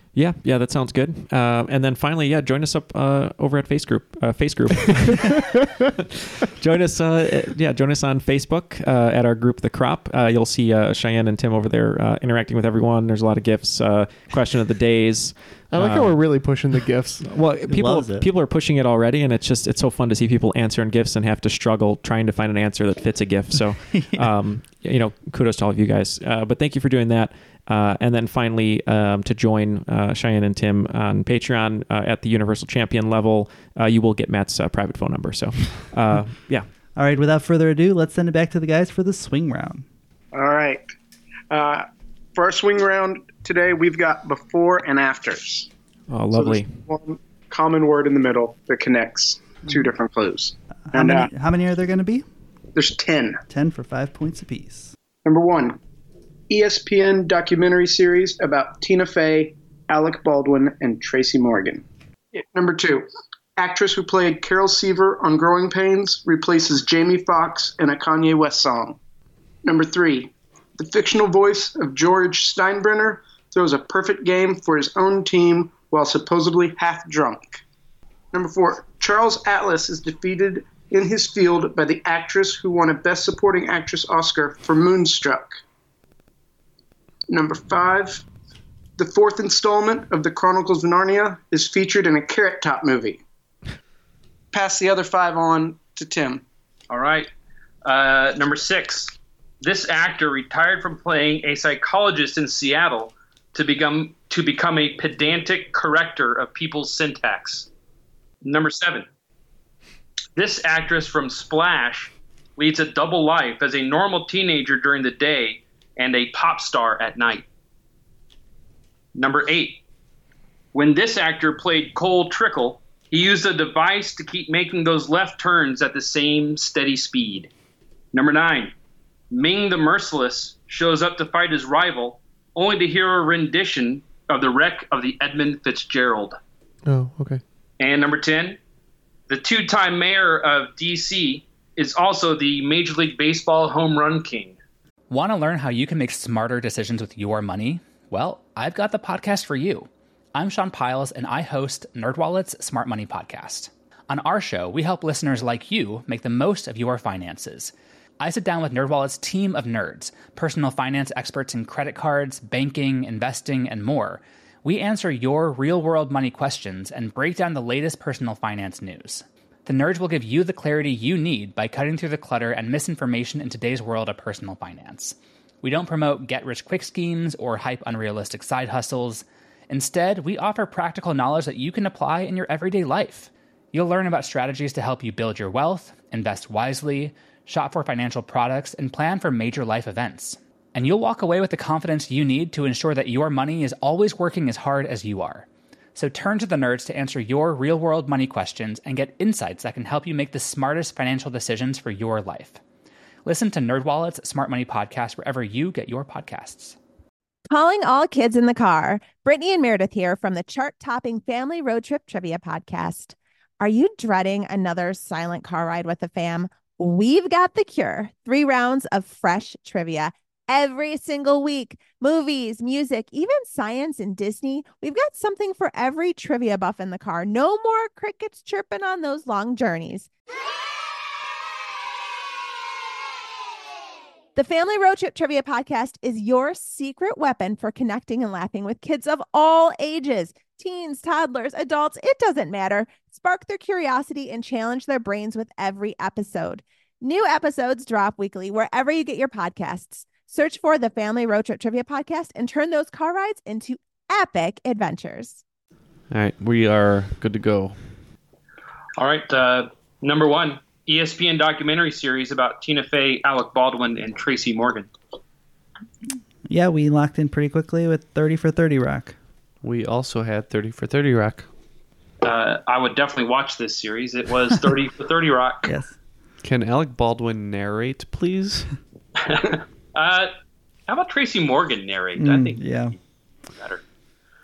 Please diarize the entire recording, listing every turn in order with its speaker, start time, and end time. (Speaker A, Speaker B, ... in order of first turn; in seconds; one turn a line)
Speaker A: 0.1-5.5
Speaker A: 6.4-16.2
Speaker B: 15.7-17.2
Speaker A: 17.2-36.7
Speaker C: 17.7-18.3
Speaker C: 23.9-24.2
Speaker C: 37.0-39.8
Speaker D: 40.3-40.8
Speaker D: 41.5-45.7
Speaker A: 46.1-46.7
Speaker D: 46.3-51.3
Speaker C: 50.9-52.2
Speaker D: 52.7-53.4
Speaker C: 53.5-54.9
Speaker D: 55.2-55.8
Speaker D: 56.5-61.8
Speaker D: 62.3-69.0
Speaker D: 69.6-77.6
Speaker D: 78.3-85.6
Speaker D: 87.3-88.2
Speaker D: 89.0-93.2
Speaker D: 94.5-96.4
Speaker E: 96.9-97.3
Speaker E: 97.8-107.7
Speaker E: 108.4-109.0
Speaker E: 110.3-117.5
Speaker E: 119.1-119.8
Speaker E: 120.7-127.5
Speaker E: 128.1-128.7
Speaker E: 129.3-136.4
Speaker B: 136.8-137.4
Speaker E: 137.8-138.6
Speaker E: 139.3-144.6
Speaker F: 145.1-202.6
Speaker F: 203.2-206.8
Speaker G: 207.5-230.1
Speaker G: 234.3-255.4
Speaker H: 256.1-257.7
Speaker E: 259.0-264.9
Speaker C: 266.5-269.1
Speaker H: 269.6-271.5
Speaker E: 272.2-275.7
Speaker C: 275.6-275.9
Speaker H: 276.4-278.7
Speaker E: 279.2-280.3
Speaker E: 280.9-282.9
Speaker C: 282.2-282.9